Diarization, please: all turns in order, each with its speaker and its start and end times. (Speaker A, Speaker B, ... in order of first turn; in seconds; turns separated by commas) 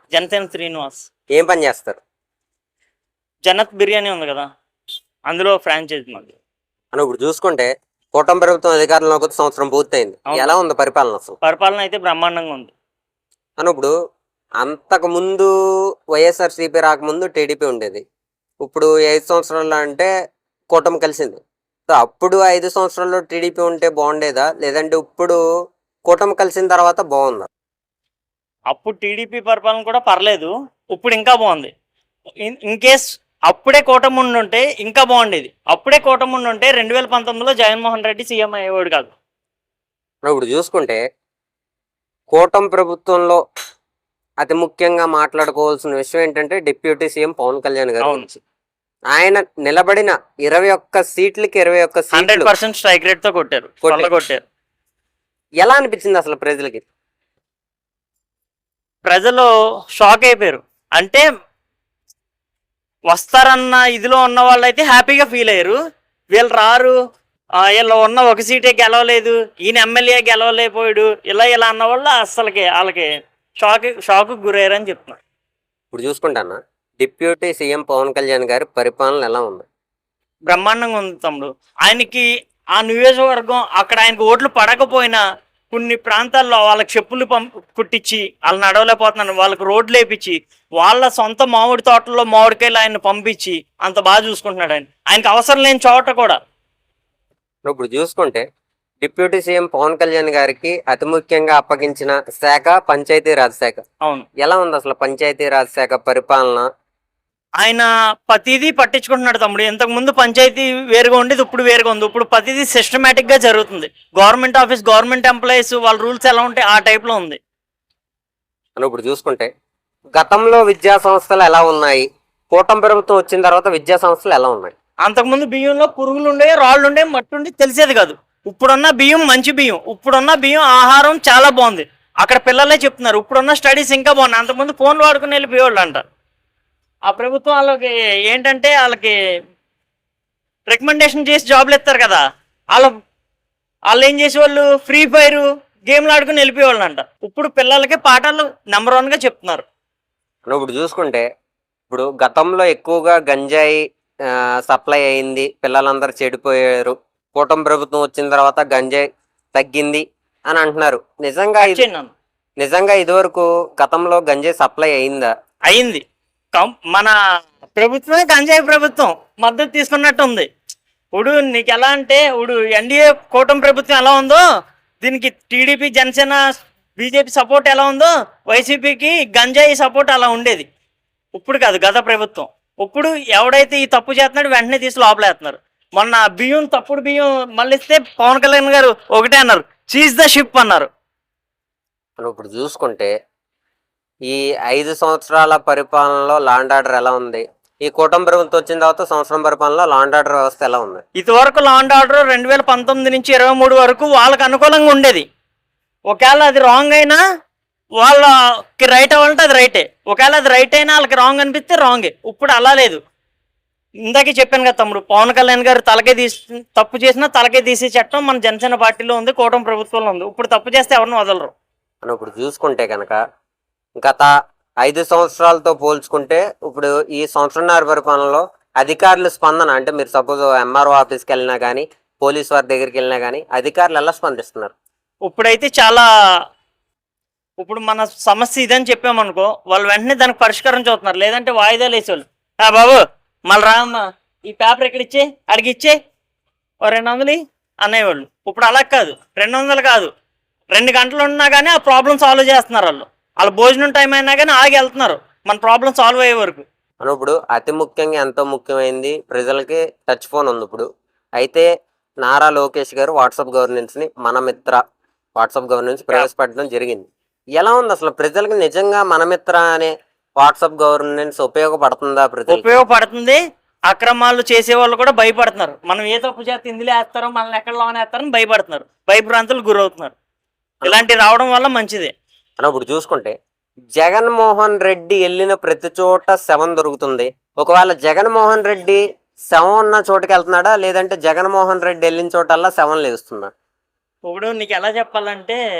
Speaker A: 0.1-1.1, Speaker B: 1.3-2.0, Speaker A: 3.5-4.5, Speaker A: 5.3-6.3, Speaker B: 6.9-11.4, Speaker A: 11.4-12.7, Speaker B: 13.6-13.9, Speaker B: 14.6-15.5, Speaker B: 16.1-18.0, Speaker B: 18.6-20.1, Speaker B: 20.7-25.4, Speaker B: 26.1-27.5, Speaker A: 28.7-31.7, Speaker A: 32.4-39.1, Speaker B: 40.2-41.0, Speaker B: 42.3-43.4, Speaker B: 44.4-48.4, Speaker A: 48.0-48.3, Speaker B: 49.1-52.5, Speaker A: 52.1-54.4, Speaker B: 53.8-54.1, Speaker B: 55.6-56.9, Speaker A: 59.1-61.2, Speaker A: 63.1-65.8, Speaker A: 66.3-67.0, Speaker A: 67.6-73.1, Speaker A: 73.6-75.2, Speaker B: 75.9-79.7, Speaker A: 80.5-96.4, Speaker B: 97.7-98.4, Speaker B: 99.0-103.8, Speaker B: 104.4-106.7, Speaker A: 107.6-117.4, Speaker B: 118.8-119.5, Speaker B: 120.1-124.8, Speaker A: 125.0-136.1, Speaker A: 137.1-139.1, Speaker A: 140.7-142.2, Speaker A: 143.9-149.7, Speaker B: 150.5-151.2, Speaker B: 151.9-161.9, Speaker A: 161.6-162.1, Speaker B: 162.6-165.3, Speaker A: 165.7-166.0, Speaker A: 166.5-167.1, Speaker A: 167.8-170.5, Speaker A: 171.1-174.4, Speaker A: 175.0-176.4, Speaker A: 177.0-180.7, Speaker A: 181.3-190.9, Speaker B: 192.2-193.1, Speaker B: 194.3-201.0, Speaker A: 201.2-205.2, Speaker A: 206.1-207.2, Speaker A: 208.0-213.0, Speaker A: 214.1-221.5, Speaker B: 222.0-223.2, Speaker B: 224.0-224.3, Speaker B: 224.8-234.7, Speaker A: 235.3-236.1, Speaker A: 237.6-246.0, Speaker A: 246.8-250.1, Speaker A: 250.7-256.6, Speaker B: 257.0-261.7, Speaker B: 262.2-264.8, Speaker B: 265.4-267.1, Speaker B: 267.6-272.8, Speaker A: 272.5-280.1, Speaker A: 280.8-282.1, Speaker B: 282.6-283.3, Speaker B: 284.0-289.0, Speaker B: 289.5-293.5, Speaker A: 294.3-295.6